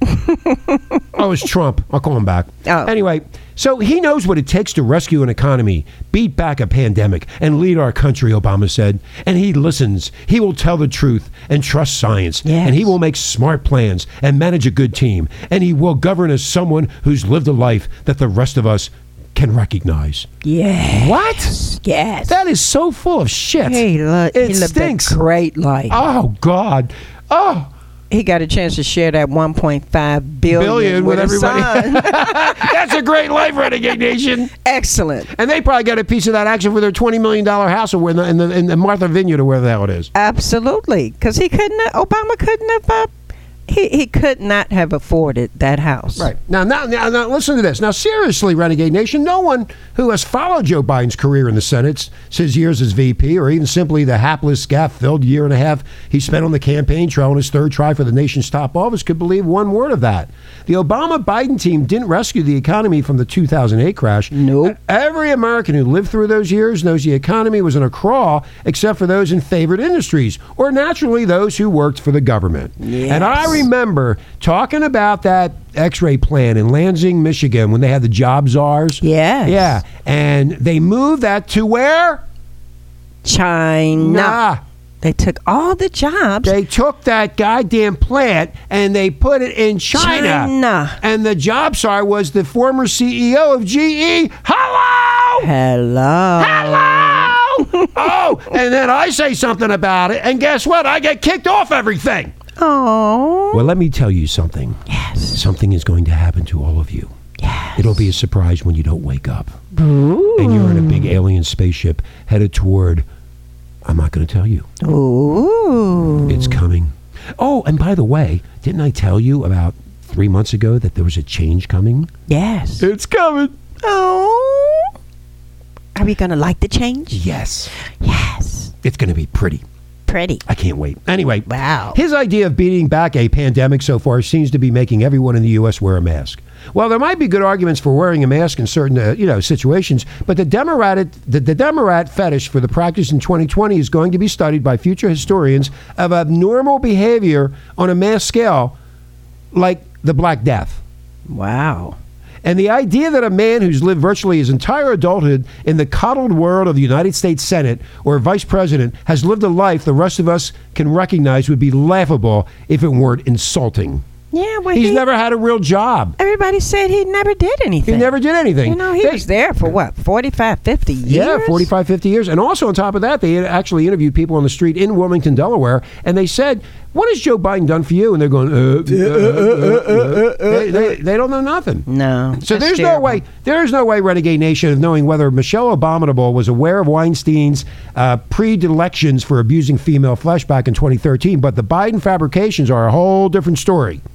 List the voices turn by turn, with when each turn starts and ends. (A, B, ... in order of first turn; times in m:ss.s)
0:00.1-0:01.0 A
0:01.1-0:20.3 B
0:02.7-0:02.9 A
0:12.4-0:12.9 A
0:20.4-0:22.4 A
0:20.9-0:21.6 B
0:22.3-0:25.2 B
0:23.6-0:26.0 A
0:25.9-0:27.7 B
0:28.1-0:32.7 A
0:30.5-0:34.5 B
0:34.6-0:35.3 A
0:35.3-0:40.1 B
0:40.1-0:43.1 A
0:43.7-0:46.3 A
0:46.2-1:22.3 B
1:04.3-1:04.8 A
1:12.8-1:13.6 A
1:19.0-1:19.8 A
1:23.2-1:24.4 A
1:24.0-1:24.6 B
1:25.0-1:26.6 A
1:26.4-1:35.5 B
1:29.9-1:31.0 A
1:35.4-1:37.9 A
1:36.4-1:42.3 B
1:42.6-1:43.7 A
1:43.5-1:44.8 B
1:44.9-1:45.4 A
1:45.3-1:47.1 B
1:47.4-1:47.9 A
1:47.8-1:49.6 B
1:49.7-1:51.2 A
1:50.4-1:53.1 B
1:53.8-1:54.7 B
1:54.8-1:56.6 A
1:56.3-2:02.1 B
2:02.3-2:02.9 A
2:02.8-2:03.6 B
2:03.8-2:04.9 A
2:06.0-2:07.2 A
2:07.1-2:07.7 B
2:08.0-2:08.7 A
2:08.8-2:09.6 B
2:10.1-2:10.4 A
2:10.5-2:28.8 B
2:11.5-2:12.0 A
2:29.5-2:30.8 B
2:31.3-2:32.0 A
2:32.4-2:44.0 B
2:44.3-2:45.0 A
2:44.7-2:46.2 B
2:46.2-2:51.7 A
2:47.9-2:49.3 B
2:51.0-3:14.0 B
2:58.9-3:01.0 A
3:01.9-3:03.2 A